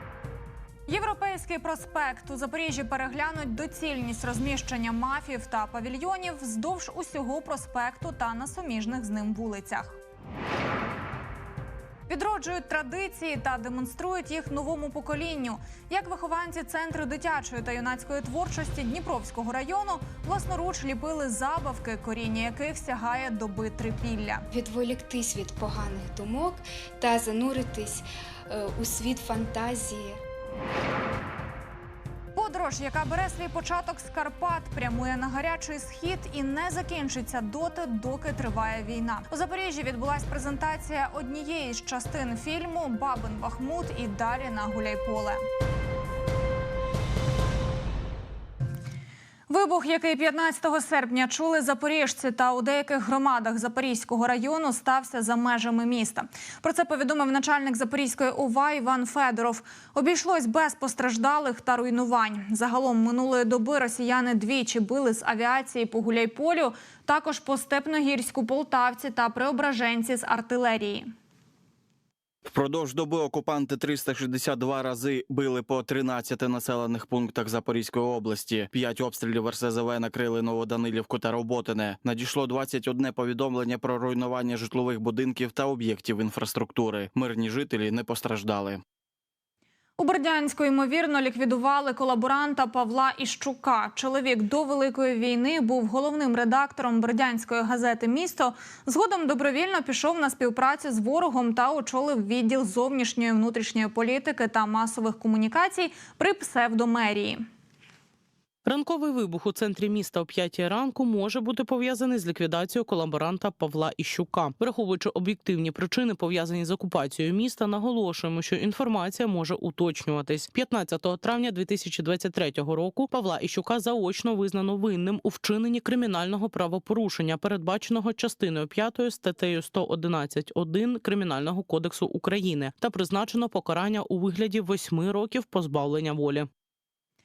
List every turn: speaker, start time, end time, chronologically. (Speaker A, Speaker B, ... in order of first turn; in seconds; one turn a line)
Speaker A: 0.9-10.0
Speaker A: 12.1-24.5
Speaker B: 24.5-30.2
Speaker A: 32.4-45.4
Speaker A: 49.5-71.1
Speaker C: 72.5-88.8
Speaker A: 90.0-107.5
Speaker D: 108.7-136.5